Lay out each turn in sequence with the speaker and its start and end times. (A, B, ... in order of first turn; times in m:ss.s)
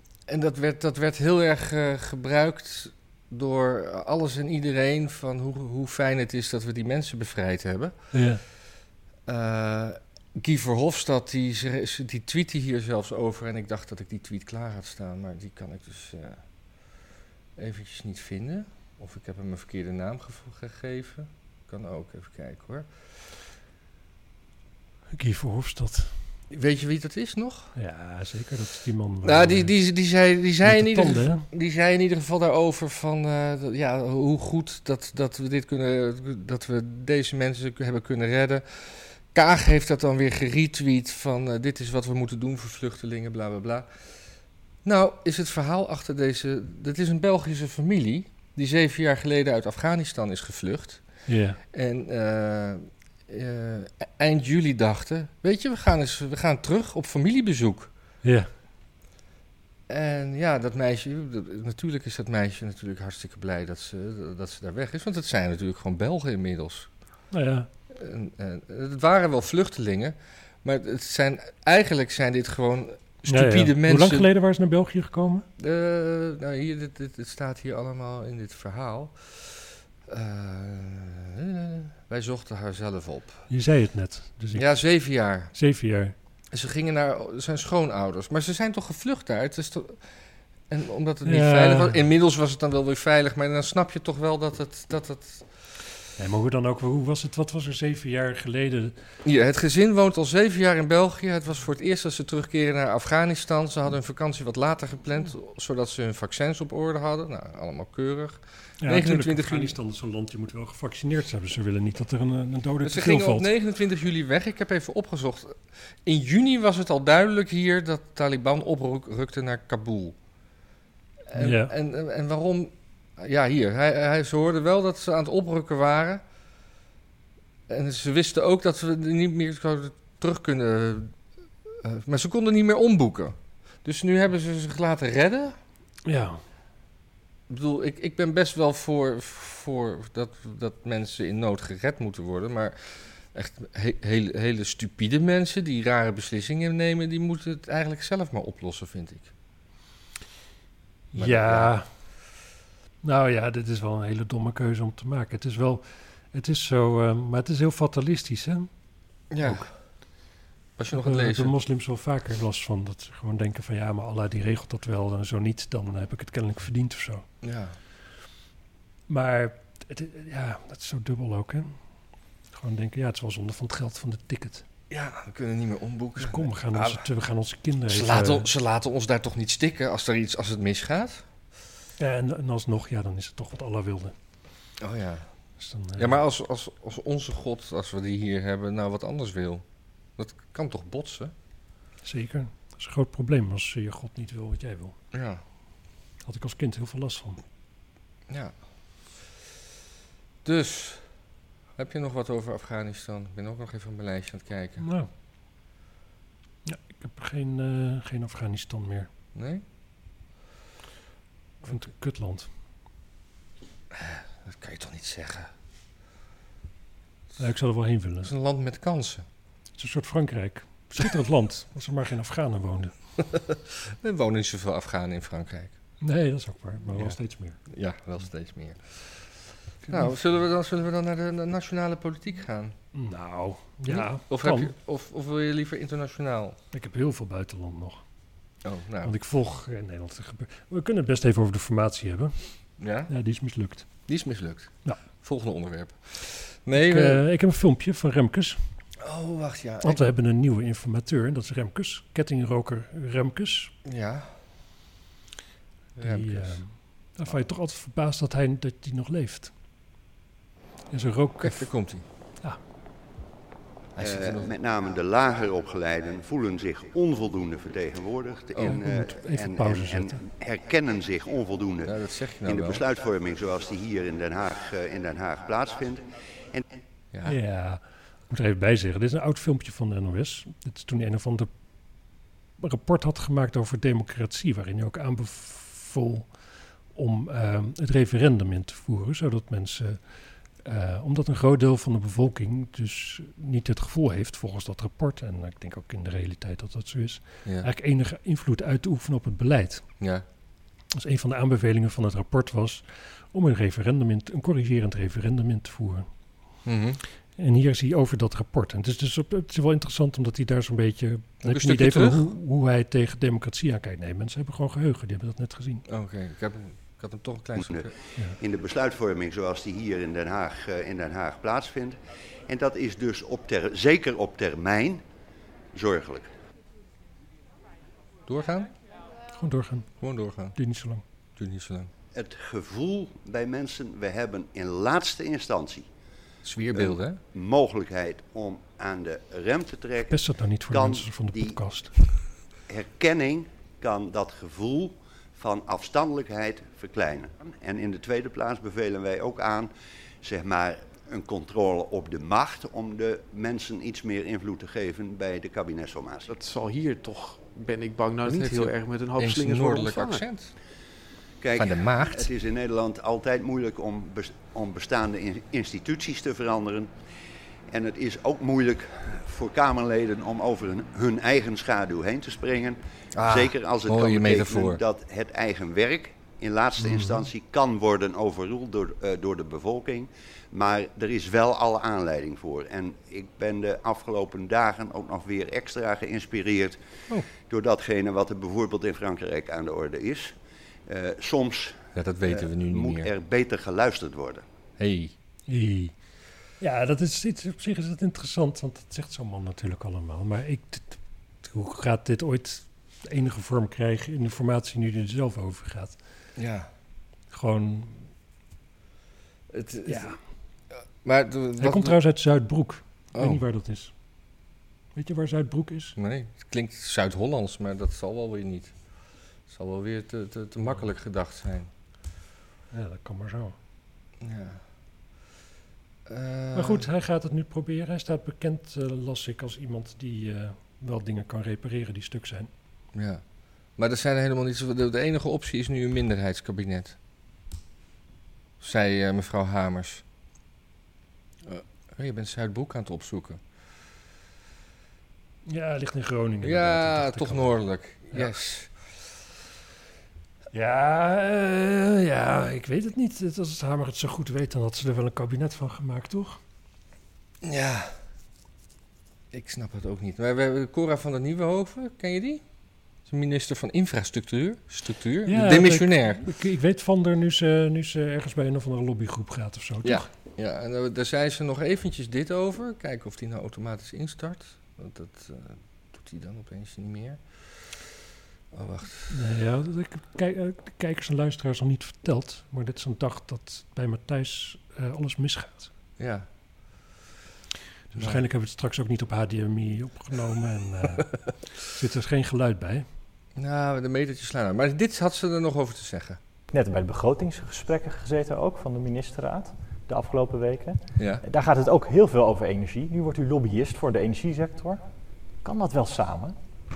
0:00.3-0:07.9 A
0:08.1-0:08.4 B
0:09.2-0:16.4 A
0:17.6-0:22.9 A
0:25.1-0:26.1 B
0:26.5-0:27.7 A
0:27.7-0:29.7 B
0:29.2-0:43.9 A
0:30.6-0:31.5 B
0:44.8-0:51.0 A
0:51.3-0:51.6 B
0:51.7-0:57.9 A
0:58.2-0:58.5 B
0:59.9-1:06.9 A
1:07.3-1:07.7 B
1:07.9-1:14.3 A
1:13.3-1:15.4 B
1:15.6-1:23.4 A
1:23.5-1:24.8 B
1:24.5-1:25.5 A
1:25.5-1:26.1 B
1:26.5-1:30.0 A
1:30.7-1:35.5 A
1:31.2-1:32.0 B
1:36.2-1:38.9 B
1:39.2-1:49.8 A
1:48.8-1:53.5 B
1:52.8-2:00.2 A
2:01.3-2:06.2 A
2:01.3-2:01.7 B
2:07.7-2:15.6 A
2:16.0-2:16.4 B
2:17.5-2:29.3 A
2:31.1-2:31.9 B
2:31.1-2:31.7 A
2:33.0-2:38.7 B
2:39.3-2:39.7 A
2:40.8-2:41.6 A
2:40.9-2:47.2 B
2:47.4-2:47.8 A
2:49.1-2:51.8 B
2:52.5-2:54.6 B
2:54.9-2:57.0 A
2:56.2-2:58.5 B
2:57.9-3:01.2 A
3:02.0-3:04.1 B
3:04.8-3:05.3 A
3:05.6-3:06.2 B
3:06.0-3:09.6 A
3:10.2-3:11.3 A
3:12.0-3:15.0 B
3:15.1-3:15.4 A
3:16.2-3:17.4 B
3:18.3-3:18.5 A
3:20.4-3:21.0 A
3:21.8-3:24.8 A
3:24.8-3:25.1 B
3:26.6-3:29.1 B
3:29.3-3:29.6 A
3:31.6-3:32.5 B
3:33.9-3:35.5 A
3:37.4-3:38.3 B
3:38.2-3:39.2 A
3:39.8-3:42.9 B
3:43.2-3:45.7 A
3:46.0-3:47.6 B
3:47.7-3:49.2 A
3:49.8-3:50.2 B
3:49.9-3:52.7 A
3:52.9-3:54.7 B
3:53.9-3:56.6 A
3:56.7-3:58.0 B
3:58.6-3:59.1 A
3:59.0-4:02.4 B
4:02.8-4:03.1 A
4:03.1-4:03.9 B
4:04.1-4:07.2 A
4:06.7-4:08.6 B
4:09.0-4:10.1 A
4:09.8-4:13.7 B
4:13.8-4:14.3 A
4:16.0-4:16.6 A
4:16.0-4:19.5 B
4:20.9-4:21.7 B
4:21.4-4:22.0 A
4:23.9-4:24.5 A
4:24.0-4:36.6 C
4:28.5-4:28.8 A
4:28.6-4:30.2 B
4:31.8-4:32.8 A
4:37.1-4:37.4 A
4:37.2-4:41.5 B
4:42.6-4:46.3 B
4:46.9-4:50.1 B
4:50.6-4:59.8 B
5:00.9-5:06.1 B
5:06.6-5:07.0 A
5:07.4-5:15.8 B
5:11.4-5:12.3 A
5:15.9-5:17.9 A
5:17.6-5:25.0 C
5:25.7-5:26.3 C
5:28.3-5:28.7 A
5:29.3-5:29.9 B
5:30.0-5:30.6 A
5:30.5-5:31.0 B
5:31.4-5:31.9 A
5:32.1-5:35.9 C
5:36.4-5:37.2 A
5:36.7-5:41.6 C
5:40.1-5:41.9 B
5:42.7-5:49.7 C
5:50.2-5:56.3 C
5:56.3-6:00.2 D
5:58.2-6:00.5 A
6:01.4-6:06.9 C
6:01.6-6:02.3 A
6:07.7-6:26.8 C
6:13.1-6:14.8 A
6:16.8-6:17.2 B
6:27.4-6:30.3 C
6:30.9-6:34.4 C
6:31.9-6:33.1 A
6:34.8-6:35.1 A
6:35.5-6:35.9 B
6:36.6-6:46.0 B
6:46.4-6:46.7 A
6:47.3-6:48.1 B
6:49.5-6:50.2 A
6:49.8-6:50.2 B
6:51.0-6:52.0 A
6:51.6-6:53.9 B
6:53.1-6:53.4 A
6:54.9-6:56.0 B
6:56.0-6:58.7 A
6:59.5-7:01.7 A
7:02.7-7:03.6 B
7:04.2-7:04.6 A
7:06.1-7:06.9 A
7:06.5-7:12.5 B
7:12.9-7:13.2 A
7:13.8-7:17.0 A
7:18.6-7:20.0 A
7:21.4-7:23.4 A
7:25.4-7:27.5 B
7:26.4-7:28.7 A
7:30.5-7:36.4 B
7:37.4-7:37.9 A
7:39.3-7:42.4 A
7:43.1-7:46.3 A
7:45.3-7:50.1 B
7:49.8-7:57.2 A
7:58.5-7:59.2 A
7:59.1-8:05.7 B
8:06.0-8:06.3 A
8:07.9-8:12.8 B
8:07.9-8:08.2 A
8:13.4-8:16.2 A
8:16.5-8:24.8 E
8:21.0-8:21.2 A
8:25.4-8:26.4 E